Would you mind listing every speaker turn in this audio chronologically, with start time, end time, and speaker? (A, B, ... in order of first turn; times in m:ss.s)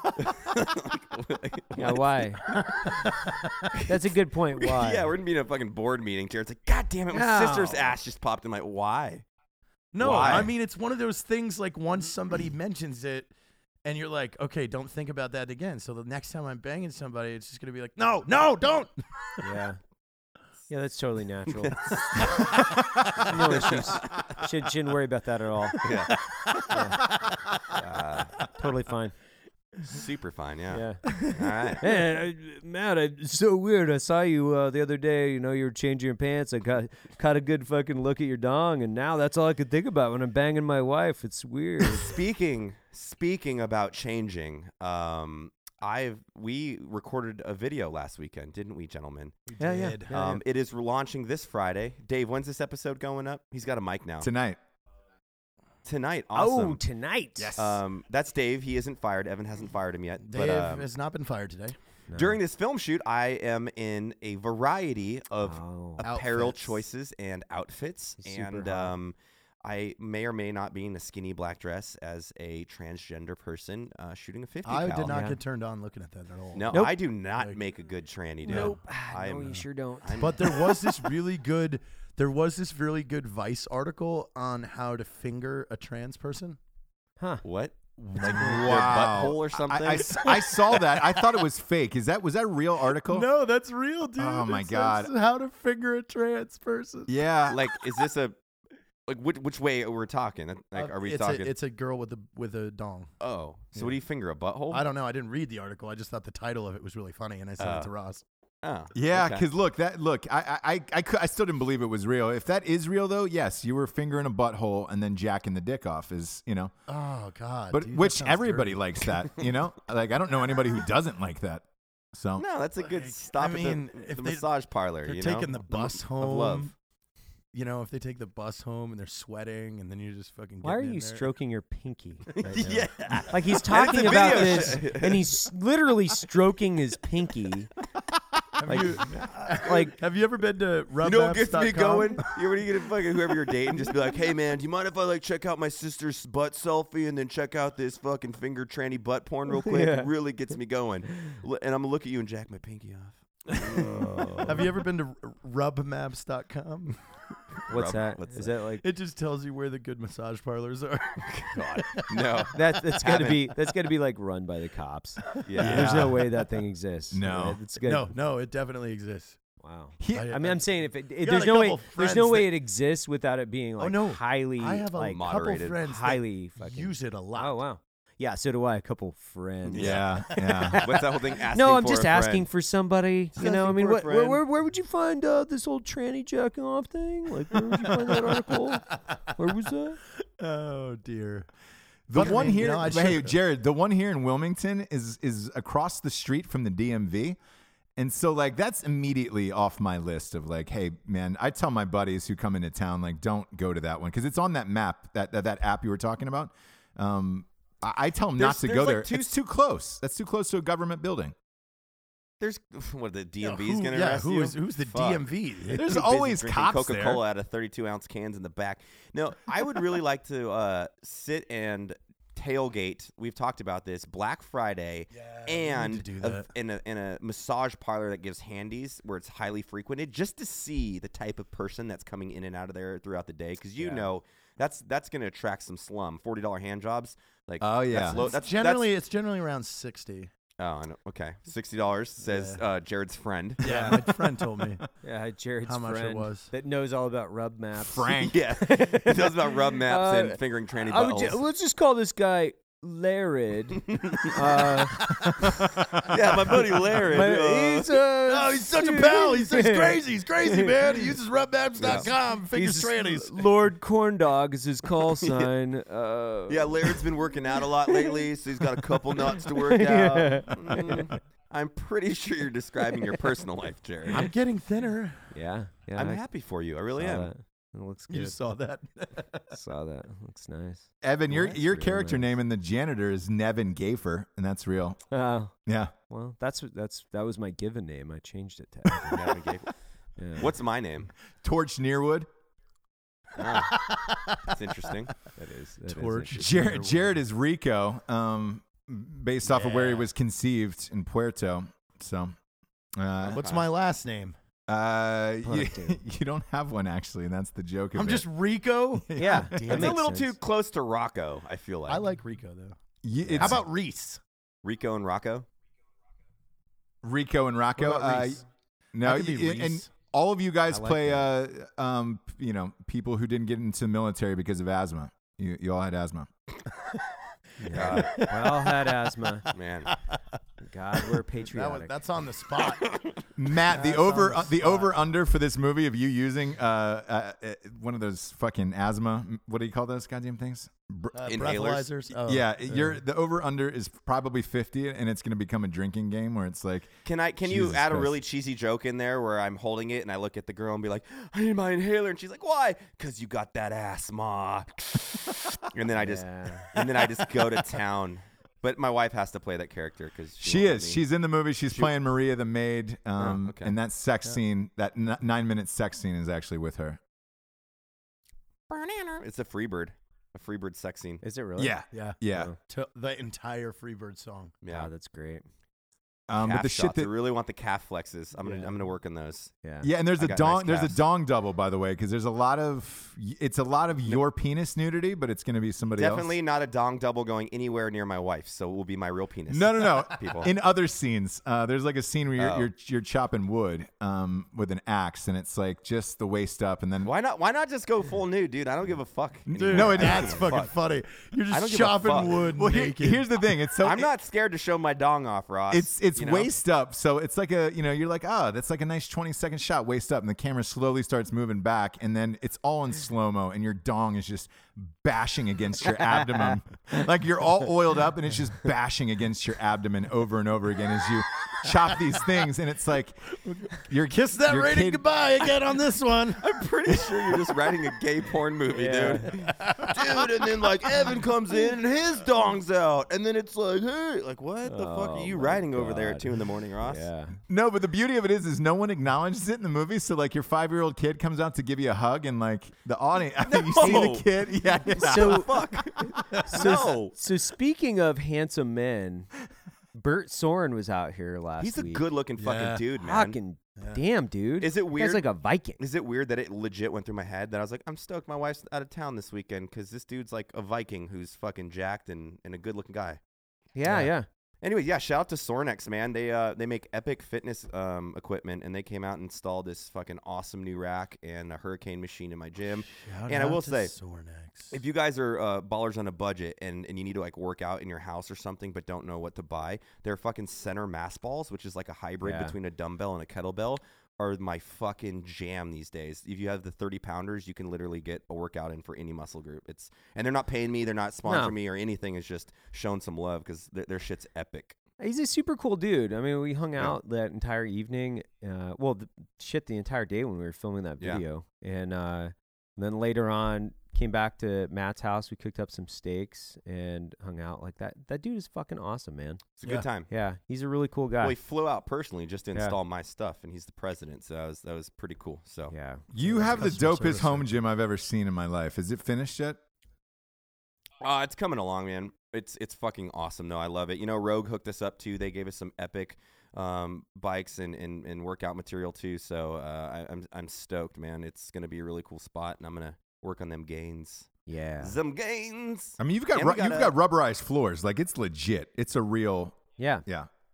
0:00.2-0:02.9 A
0:01.8-0:02.6 B
0:02.8-0:03.6 C
0:03.8-0:05.1 B
0:04.6-0:09.2 A
0:07.1-0:08.0 B
0:09.9-0:13.3 C
0:10.0-0:10.5 A
0:10.0-0:10.5 B
0:13.8-0:19.4 C
0:19.4-0:19.8 B
0:20.7-0:27.2 B
0:21.4-0:22.4 A
0:22.4-0:23.2 C
0:23.4-0:24.2 A
0:25.8-0:26.6 A
0:27.8-0:28.5 A
0:28.4-0:29.3 B
0:29.8-0:31.8 A
0:30.7-0:42.1 B
0:42.0-0:49.5 A
0:49.5-0:50.1 C
0:49.6-0:50.4 B
0:50.1-0:54.3 A
0:54.2-0:54.6 D
0:55.8-0:56.8 A
0:56.3-0:57.5 B
0:57.4-0:57.8 D
0:57.5-1:00.9 A
1:00.2-1:01.8 C
1:02.1-1:02.4 B
1:02.1-1:15.2 A
1:05.4-1:06.0 B
1:06.0-1:06.8 C
1:08.2-1:09.0 B
1:14.6-1:16.8 C
1:15.0-1:15.4 B
1:16.5-1:20.8 A
1:16.7-1:17.0 B
1:18.4-1:18.7 C
1:18.4-1:20.8 B
1:20.2-1:26.6 C
1:27.4-1:30.6 A
1:28.0-1:33.3 D
1:28.2-1:28.9 B
1:33.0-1:37.1 C
1:34.2-1:35.1 D
1:37.1-1:37.6 D
1:37.5-1:38.4 A
1:39.1-1:41.5 A
1:40.8-1:43.1 C
1:43.2-1:44.8 A
1:44.7-1:48.2 C
1:47.6-1:47.9 A
1:48.6-1:49.4 A
1:48.9-1:56.7 D
1:56.9-1:59.1 C
1:57.7-2:02.4 D
2:02.4-2:06.7 A
2:02.9-2:04.5 C
2:05.0-2:06.7 C
2:07.5-2:11.3 C
2:10.6-2:17.7 B
2:12.4-2:15.4 A
2:12.5-2:14.7 C
2:18.6-2:22.3 C
2:18.7-2:20.0 B
2:21.0-2:34.5 A
2:29.6-2:30.1 B
2:33.8-2:34.7 B
2:34.4-2:37.4 C
2:37.7-2:38.5 A
2:37.7-2:38.8 B
2:38.8-2:42.5 C
2:41.2-2:43.6 A
2:42.5-2:48.1 B
2:45.4-2:46.2 A
2:45.5-2:46.2 C
2:45.6-2:46.1 D
2:47.1-2:47.6 D
2:47.8-2:49.6 C
2:49.6-3:10.0 B
2:50.0-2:50.3 D
2:50.1-2:52.5 C
2:53.8-2:57.6 C
2:55.1-2:55.8 A
2:59.6-3:02.5 A
2:59.8-3:00.9 D
3:03.3-3:04.4 A
3:03.4-3:03.8 C
3:10.4-3:11.5 C
3:12.1-3:17.4 D
3:12.1-3:13.4 C
3:18.0-3:31.3 D
3:28.4-3:29.3 A
3:32.4-3:58.9 A
3:33.4-3:35.8 C
3:35.7-3:37.2 D
3:45.1-3:46.5 C
3:57.6-3:58.2 D
3:57.9-4:00.3 C
4:00.6-4:03.9 A
4:02.2-4:02.6 C
4:03.6-4:04.8 C
4:03.6-4:04.0 B
4:03.6-4:04.8 D
4:05.0-4:15.6 B
4:05.6-4:06.5 C
4:07.8-4:08.4 D
4:08.2-4:11.4 A
4:13.9-4:14.6 A
4:15.2-4:15.4 C
4:16.0-4:18.0 A
4:16.3-4:21.1 B
4:18.2-4:23.4 C
4:21.8-4:22.1 A
4:21.8-4:27.0 B
4:25.2-4:25.5 A
4:26.5-4:34.3 A
4:27.9-4:28.2 B
4:29.2-4:31.1 B
4:34.1-4:35.4 C
4:35.3-4:36.2 B
4:36.0-4:37.3 A
4:36.9-4:38.5 B
4:38.1-4:39.4 C
4:39.5-4:42.3 B
4:41.0-4:45.9 D
4:45.1-4:49.4 B
4:49.1-4:51.1 A
4:50.2-4:50.5 B
4:51.3-4:52.3 D
4:53.4-4:55.3 A
4:53.5-4:54.5 C
4:55.3-4:56.9 B
4:55.9-4:57.1 C
4:56.3-5:02.4 D
4:59.5-5:00.0 B
5:03.0-5:03.4 D
5:03.2-5:03.7 A
5:03.3-5:04.4 C
5:04.7-5:08.3 D
5:05.4-5:06.0 B
5:07.9-5:10.0 C
5:08.9-5:09.8 D
5:09.2-5:10.3 B
5:09.5-5:12.0 A
5:11.9-5:14.2 C
5:13.0-5:13.6 D
5:14.6-5:15.4 A
5:17.0-5:26.3 D
5:17.8-5:18.5 C
5:19.0-5:19.9 C
5:20.7-5:21.3 B
5:27.6-5:29.5 B
5:27.6-5:28.5 C
5:27.7-5:28.3 A
5:29.5-5:30.0 A
5:30.6-5:31.9 B
5:31.0-5:34.9 C
5:33.4-5:41.5 D
5:41.1-5:43.0 C
5:41.3-5:41.9 A
5:42.2-5:48.2 D
5:47.0-6:01.0 A
5:56.0-5:56.8 B
6:00.4-6:07.0 D
6:03.2-6:03.7 A
6:08.7-6:11.2 A
6:11.2-6:12.6 B
6:11.6-6:12.5 D
6:11.9-6:14.5 C
6:14.6-6:14.9 A
6:14.7-6:15.4 B
6:16.3-6:17.1 D
6:16.4-6:19.5 A
6:18.4-6:18.7 B
6:19.6-6:19.9 B
6:19.8-6:26.3 D
6:20.1-6:21.0 A
6:26.0-6:30.5 A
6:29.5-6:37.1 D
6:32.4-6:32.7 A
6:37.0-6:40.7 A
6:39.5-6:40.6 D
6:39.5-6:43.2 C
6:41.5-6:42.5 A
6:42.5-6:44.1 D
6:43.8-6:46.5 A
6:45.7-7:05.0 D
6:55.9-6:56.6 B
7:03.4-7:06.6 C
7:06.4-7:17.1 A
7:08.7-7:09.5 B
7:09.4-7:10.2 C
7:10.8-7:11.3 C
7:14.6-7:17.4 B
7:17.5-7:25.6 D
7:23.4-7:24.3 A
7:23.8-7:24.1 B
7:24.9-7:27.2 A
7:25.0-7:29.3 B
7:29.9-7:32.0 B
7:31.6-7:33.4 A
7:32.4-7:32.8 C
7:33.0-7:35.8 B
7:34.6-7:43.2 A
7:43.7-7:44.3 B
7:43.8-7:44.1 C
7:44.6-7:53.9 A
7:52.8-7:54.8 C
7:54.7-8:14.8 A
8:02.2-8:02.6 B
8:11.2-8:11.5 B
8:15.0-8:29.5 B
8:21.0-8:21.2 A
8:29.6-8:30.1 A
8:30.0-8:31.4 B
8:31.2-8:35.7 A
8:35.7-8:36.1 B
8:36.1-8:39.6 D
8:36.2-8:37.5 C
8:41.0-8:56.9 A
8:54.4-8:55.0 B
8:56.0-9:00.3 D
8:59.8-9:00.0 B